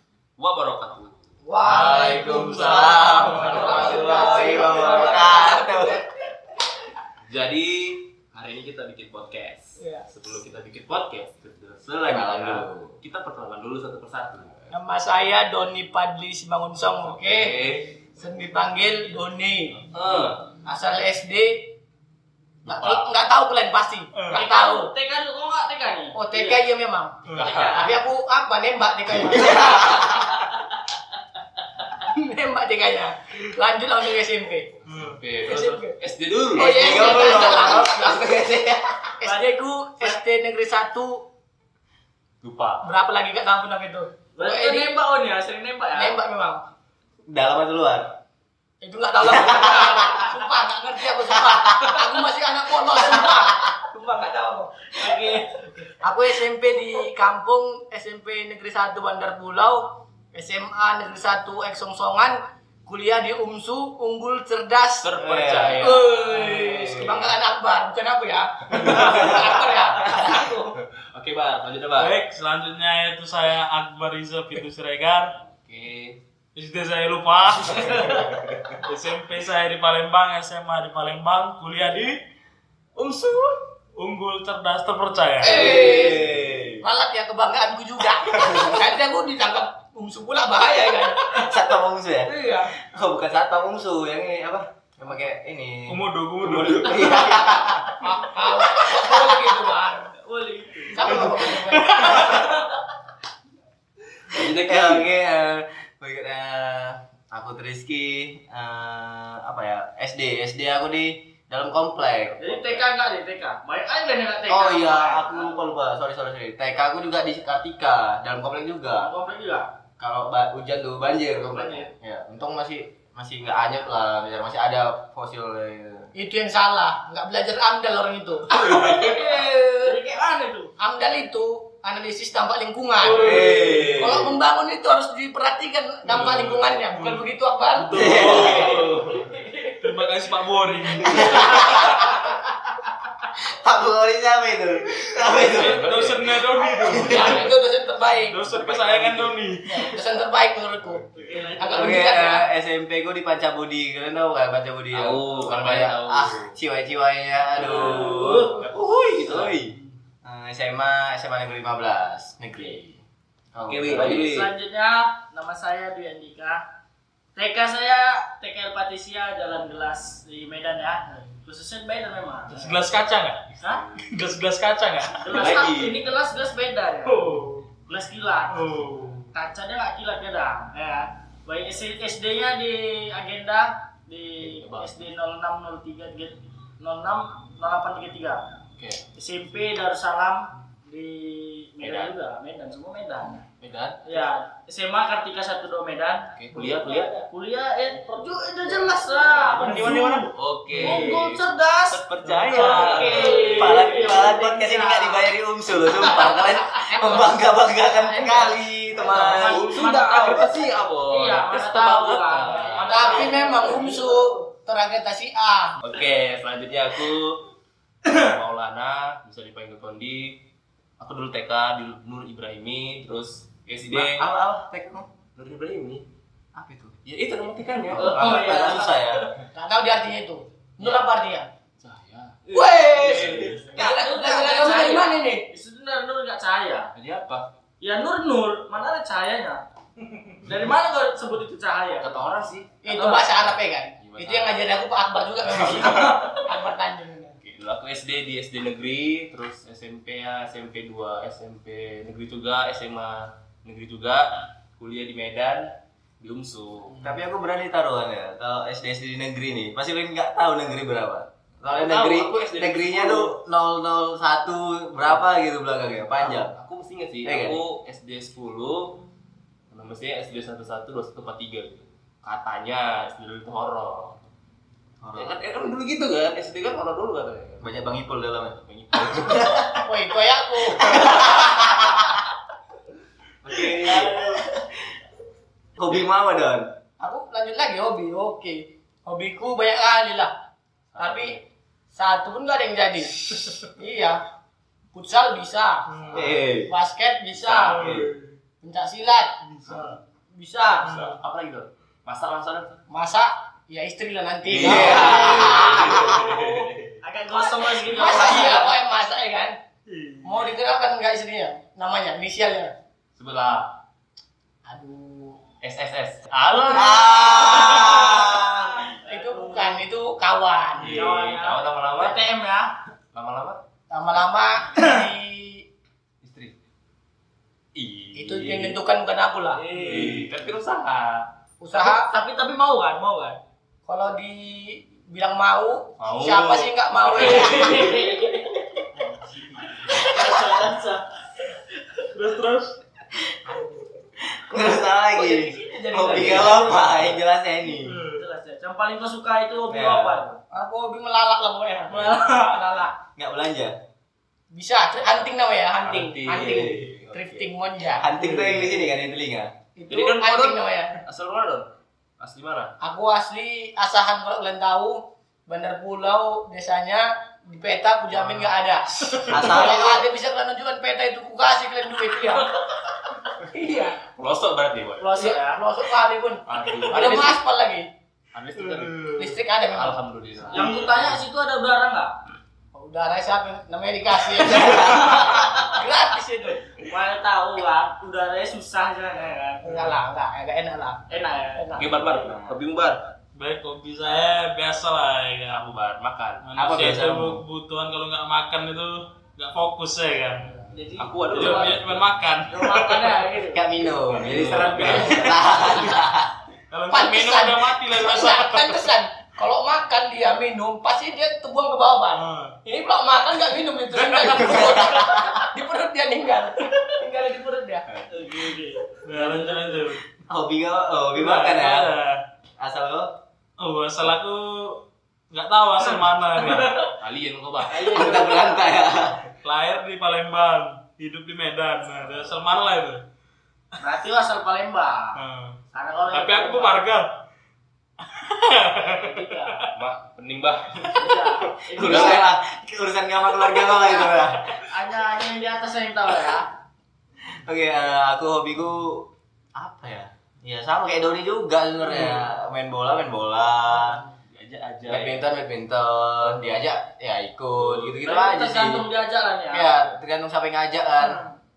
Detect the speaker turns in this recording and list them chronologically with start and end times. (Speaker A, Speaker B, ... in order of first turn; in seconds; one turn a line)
Speaker A: 0.4-1.2
Speaker B: 1.4-2.8
Speaker C: 1.6-3.7
Speaker D: 1.6-6.0
Speaker A: 1.7-5.5
Speaker B: 3.4-6.0
Speaker E: 3.5-5.7
Speaker A: 7.3-14.7
Speaker D: 12.0-13.0
Speaker B: 14.7-19.9
Speaker A: 17.0-17.9
Speaker A: 19.9-20.4
Speaker B: 20.6-21.7
Speaker B: 22.6-24.9
Speaker C: 24.1-24.4
Speaker E: 24.3-26.6
Speaker B: 26.1-30.5
Speaker C: 27.2-27.7
Speaker A: 27.4-27.9
Speaker D: 29.2-30.1
Speaker B: 31.9-34.8
Speaker C: 34.9-35.2
Speaker A: 34.9-37.6
Speaker B: 35.5-36.0
Speaker B: 36.5-38.2
Speaker D: 36.6-39.1
Speaker B: 39.2-41.3
Speaker A: 42.4-42.8
Speaker B: 42.8-45.0
Speaker E: 44.4-46.1
Speaker B: 46.0-46.6
Speaker D: 47.3-48.1
Speaker B: 48.8-55.3
Speaker D: 49.2-50.3
Speaker D: 51.4-51.9
Speaker E: 54.9-55.9
Speaker B: 56.0-70.6
Speaker A: 65.0-66.4
Speaker D: 65.2-67.3
Speaker A: 68.8-69.5
Speaker A: 70.0-72.2
Speaker C: 72.0-75.4
Speaker A: 75.5-76.2
Speaker C: 76.5-78.3
Speaker A: 78.1-78.7
Speaker C: 78.8-82.2
Speaker A: 83.0-83.5
Speaker C: 84.0-85.7
Speaker D: 85.4-86.8
Speaker B: 85.4-91.5
Speaker D: 88.4-88.7
Speaker D: 91.3-98.0
Speaker E: 92.2-92.7
Speaker C: 95.9-97.4
Speaker B: 98.0-100.1
Speaker D: 98.9-99.4
Speaker E: 100.1-101.4
Speaker B: 100.9-102.4
Speaker D: 101.0-101.5
Speaker C: 101.8-102.4
Speaker E: 102.1-102.6
Speaker A: 104.3-105.1
Speaker D: 104.5-112.9
Speaker E: 112.4-115.5
Speaker D: 114.5-119.1
Speaker E: 119.0-119.7
Speaker D: 120.0-126.1
Speaker E: 121.5-121.9
Speaker B: 126.2-130.0
Speaker E: 128.6-130.7
Speaker B: 130.8-138.7
Speaker C: 133.0-134.1
Speaker A: 133.1-134.3
Speaker D: 133.1-134.2
Speaker C: 136.1-138.9
Speaker D: 137.9-138.8
Speaker A: 138.2-139.3
Speaker E: 139.3-139.7
Speaker C: 139.7-141.8
Speaker D: 141.1-142.0
Speaker D: 143.5-145.9
Speaker A: 145.3-147.5
Speaker C: 145.5-147.5
Speaker B: 146.9-148.4
Speaker D: 146.9-147.4
Speaker C: 148.3-150.0
Speaker A: 148.5-149.4
Speaker B: 149.7-151.1
Speaker E: 151.2-152.4
Speaker B: 151.6-152.5
Speaker D: 151.7-158.6
Speaker A: 154.9-156.5
Speaker A: 157.5-159.6
Speaker E: 157.6-158.7
Speaker D: 159.2-163.0
Speaker E: 162.6-162.8
Speaker D: 163.5-164.2
Speaker A: 163.7-164.5
Speaker E: 163.9-166.6
Speaker E: 167.4-172.9
Speaker C: 172.5-175.6
Speaker A: 173.6-174.1
Speaker E: 175.2-177.3
Speaker A: 175.3-176.0
Speaker C: 177.1-177.7
Speaker E: 177.9-188.5
Speaker C: 178.5-179.3
Speaker A: 184.4-185.1
Speaker A: 188.8-189.0
Speaker E: 189.2-193.5
Speaker A: 191.8-192.2
Speaker A: 193.6-194.2
Speaker E: 194.1-200.2
Speaker A: 196.3-197.2
Speaker A: 199.3-204.1
Speaker C: 199.6-201.2
Speaker E: 200.8-205.3
Speaker C: 202.2-203.9
Speaker D: 203.1-209.8
Speaker E: 206.0-206.4
Speaker B: 206.0-208.6
Speaker E: 209.0-214.1
Speaker A: 209.4-213.5
Speaker B: 212.8-215.8
Speaker A: 215.8-217.5
Speaker A: 218.0-220.4
Speaker A: 221.0-224.3
Speaker D: 223.9-225.1
Speaker A: 225.4-226.1
Speaker D: 226.6-226.9
Speaker A: 227.1-228.3
Speaker D: 227.9-229.2
Speaker E: 227.9-229.3
Speaker B: 229.5-231.5
Speaker A: 231.8-233.7
Speaker B: 232.5-235.5
Speaker E: 232.6-232.9
Speaker D: 232.6-234.8
Speaker E: 233.8-236.9
Speaker A: 236.9-237.5
Speaker E: 237.8-239.6
Speaker E: 240.4-242.3
Speaker A: 242.0-242.8
Speaker B: 242.8-247.4
Speaker E: 242.8-243.4
Speaker A: 243.4-244.7
Speaker A: 245.5-246.2
Speaker A: 247.4-257.1
Speaker D: 257.0-266.5
Speaker A: 261.6-263.3
Speaker A: 266.2-269.0
Speaker D: 267.2-267.6
Speaker A: 269.7-274.3
Speaker D: 275.0-275.4
Speaker A: 275.1-277.9
Speaker D: 277.6-279.9
Speaker A: 278.5-279.7
Speaker B: 279.8-281.4
Speaker D: 280.8-282.1
Speaker A: 283.4-284.3
Speaker B: 283.8-284.4
Speaker D: 283.9-284.6
Speaker D: 285.8-286.7
Speaker B: 287.0-290.3
Speaker A: 290.9-291.4
Speaker B: 291.0-291.4
Speaker B: 291.9-294.2
Speaker B: 294.9-297.9
Speaker C: 295.9-296.2
Speaker A: 296.0-296.4
Speaker D: 296.1-296.7
Speaker D: 297.6-298.1
Speaker C: 297.6-298.3
Speaker B: 298.6-300.9
Speaker C: 299.5-300.0
Speaker C: 300.8-301.2
Speaker A: 300.9-302.8
Speaker B: 302.9-306.5
Speaker A: 304.5-307.0
Speaker D: 304.6-306.2
Speaker E: 307.0-308.8
Speaker B: 307.8-309.6
Speaker C: 309.9-310.5
Speaker B: 310.2-312.7
Speaker A: 313.2-313.7
Speaker B: 314.7-315.4
Speaker A: 315.6-316.3
Speaker C: 316.3-318.3
Speaker D: 316.7-318.7
Speaker E: 318.4-319.8
Speaker B: 319.0-321.1
Speaker A: 320.8-322.3
Speaker E: 320.8-322.7
Speaker A: 323.1-323.6
Speaker B: 323.9-325.6
Speaker A: 326.2-326.5
Speaker A: 327.8-328.8
Speaker B: 328.1-329.6
Speaker C: 329.7-330.3
Speaker A: 329.7-331.3
Speaker E: 329.8-330.1
Speaker B: 331.6-332.1
Speaker E: 331.8-333.4
Speaker B: 333.9-338.1
Speaker A: 336.0-338.0
Speaker E: 337.1-339.0
Speaker E: 339.7-341.1
Speaker C: 342.1-342.8
Speaker D: 344.2-348.0
Speaker B: 345.1-347.0
Speaker E: 346.2-346.5
Speaker C: 347.9-348.2
Speaker E: 348.0-350.4
Speaker D: 349.7-350.2
Speaker B: 350.5-352.9
Speaker E: 351.9-352.6
Speaker D: 353.2-353.8
Speaker B: 354.5-358.1
Speaker A: 355.8-357.5
Speaker D: 358.0-359.5
Speaker A: 358.1-358.8
Speaker B: 359.8-361.0
Speaker A: 359.9-361.7
Speaker A: 362.2-362.8
Speaker B: 362.8-372.5
Speaker A: 368.1-368.5
Speaker D: 369.3-370.1
Speaker B: 373.5-374.0
Speaker A: 374.1-375.2
Speaker E: 375.0-375.6
Speaker B: 375.1-377.9
Speaker A: 376.5-377.4
Speaker A: 378.3-381.2
Speaker C: 378.6-379.3
Speaker B: 379.2-380.0
Speaker E: 380.5-382.1
Speaker C: 380.6-380.9
Speaker B: 382.7-386.6
Speaker D: 384.7-385.1
Speaker E: 386.8-389.8
Speaker B: 389.6-391.9
Speaker E: 391.1-391.7
Speaker A: 391.8-393.1
Speaker D: 392.1-392.6
Speaker C: 393.4-395.7
Speaker A: 395.5-396.5
Speaker C: 396.4-400.6
Speaker D: 396.6-397.4
Speaker E: 400.7-401.9
Speaker A: 401.0-402.1
Speaker C: 401.3-403.4
Speaker E: 402.5-403.7
Speaker D: 403.5-406.3
Speaker A: 404.2-405.8
Speaker C: 404.8-405.9
Speaker C: 406.7-408.9
Speaker B: 406.9-417.9
Speaker C: 412.1-412.6
Speaker C: 413.9-414.4
Speaker D: 414.4-415.3
Speaker E: 418.1-419.8
Speaker C: 419.0-420.0
Speaker D: 420.3-421.9
Speaker C: 421.1-422.2
Speaker D: 422.6-423.1
Speaker C: 423.6-426.9
Speaker E: 426.4-426.9
Speaker A: 427.0-428.2
Speaker E: 427.7-428.6
Speaker D: 427.9-429.2
Speaker C: 429.4-433.0
Speaker E: 433.8-435.2
Speaker C: 435.2-435.6
Speaker E: 435.7-436.8
Speaker C: 436.1-437.1
Speaker C: 438.0-439.7
Speaker E: 438.8-439.6
Speaker A: 439.8-441.2
Speaker C: 440.8-441.1
Speaker E: 440.9-442.3
Speaker A: 441.7-442.3
Speaker D: 441.8-444.5
Speaker E: 443.6-446.5
Speaker D: 447.3-454.0
Speaker A: 454.3-455.3
Speaker D: 454.9-458.9
Speaker A: 457.6-458.0
Speaker E: 458.0-459.9
Speaker D: 459.5-461.2